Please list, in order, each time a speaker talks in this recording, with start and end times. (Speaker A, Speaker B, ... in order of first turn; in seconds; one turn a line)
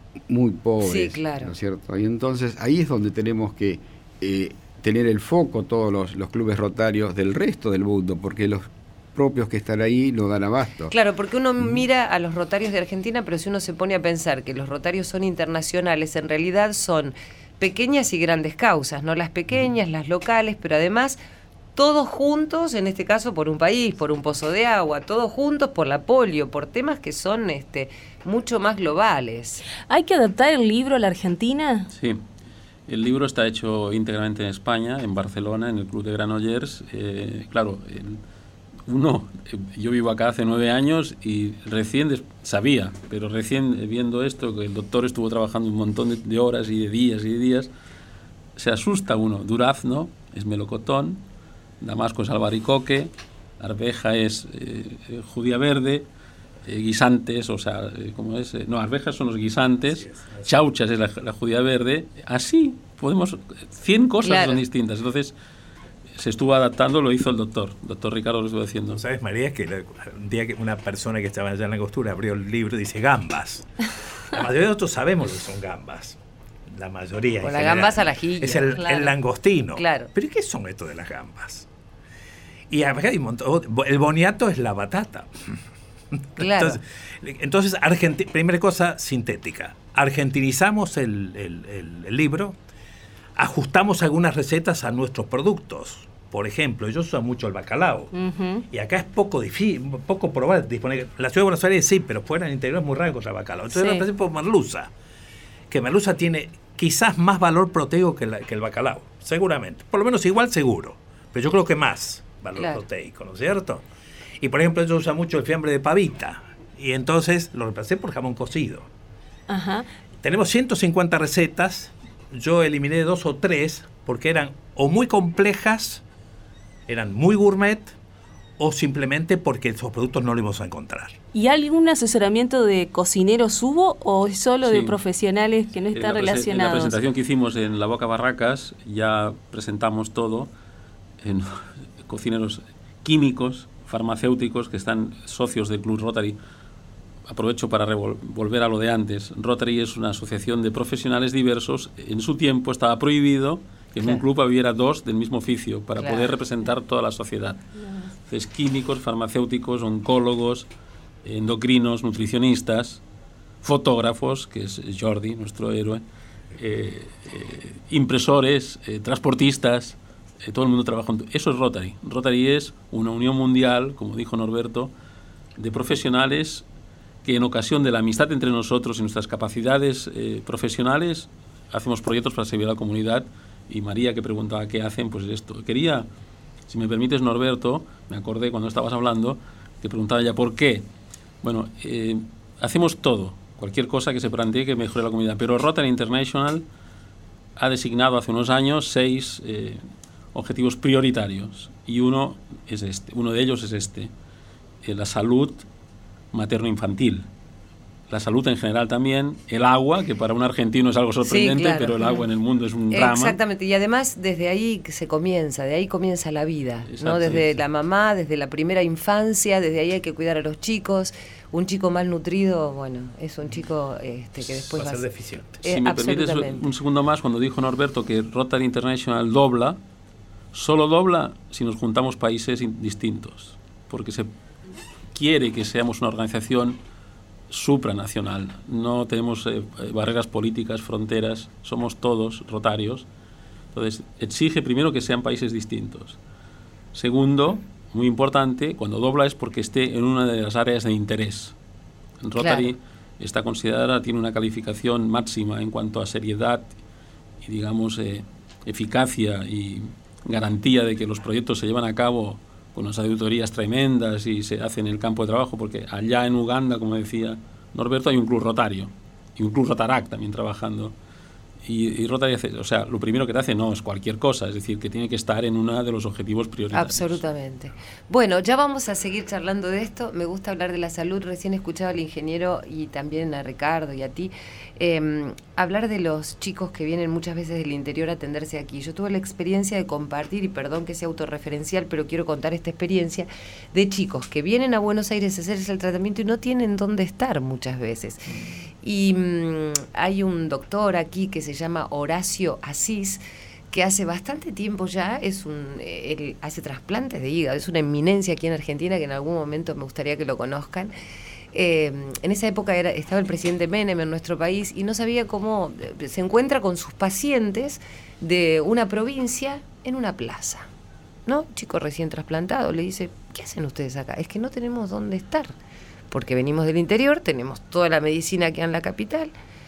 Speaker A: 0.3-10.9
Speaker B: 0.8-1.5
Speaker B: 10.9-21.2
Speaker B: 21.8-29.6
Speaker C: 29.9-31.9
Speaker D: 31.9-32.2
Speaker D: 32.9-38.2
Speaker D: 38.9-47.7
Speaker D: 48.6-51.2
Speaker D: 51.8-56.1
Speaker D: 56.6-65.3
Speaker E: 59.9-60.4
Speaker B: 64.2-64.6
Speaker D: 66.2-69.0
Speaker E: 68.9-73.7
Speaker E: 74.3-76.2
Speaker E: 76.7-81.7
Speaker B: 77.4-79.2
Speaker B: 79.8-80.1
Speaker E: 82.7-85.3
Speaker E: 86.2-92.5
Speaker B: 86.4-86.8
Speaker E: 93.4-98.1
Speaker C: 98.1-98.6
Speaker E: 98.7-104.9
Speaker B: 103.7-104.1
Speaker E: 105.7-113.8
Speaker B: 112.6-112.8
Speaker E: 114.4-118.9
Speaker C: 119.5-119.9
Speaker E: 120.2-126.0
Speaker E: 126.9-127.9
Speaker E: 128.6-131.2
Speaker C: 131.3-137.0
Speaker D: 134.6-135.0
Speaker D: 135.9-140.5
Speaker D: 141.2-146.4
Speaker D: 147.3-160.7
Speaker B: 156.0-156.3
Speaker D: 161.2-163.0
Speaker D: 163.6-166.0
Speaker D: 166.6-174.9
Speaker D: 175.6-176.7
Speaker D: 177.2-186.1
Speaker D: 186.7-190.9
Speaker D: 191.4-196.7
Speaker D: 197.6-204.1
Speaker D: 204.8-205.7
Speaker D: 206.3-207.3
Speaker D: 208.1-213.4
Speaker B: 211.3-212.2
Speaker B: 212.9-225.1
Speaker D: 216.9-217.6
Speaker E: 224.4-225.6
Speaker B: 225.6-226.7
Speaker D: 225.6-229.8
Speaker D: 230.5-234.3
Speaker D: 235.1-236.8
Speaker D: 237.5-243.1
Speaker D: 243.7-246.2
Speaker D: 246.9-251.6
Speaker D: 252.2-256.7
Speaker B: 252.4-252.7
Speaker D: 257.4-270.9
Speaker D: 271.6-277.2
Speaker B: 276.7-310.9
Speaker B: 311.5-320.7
Speaker B: 321.3-325.5
Speaker B: 326.1-329.3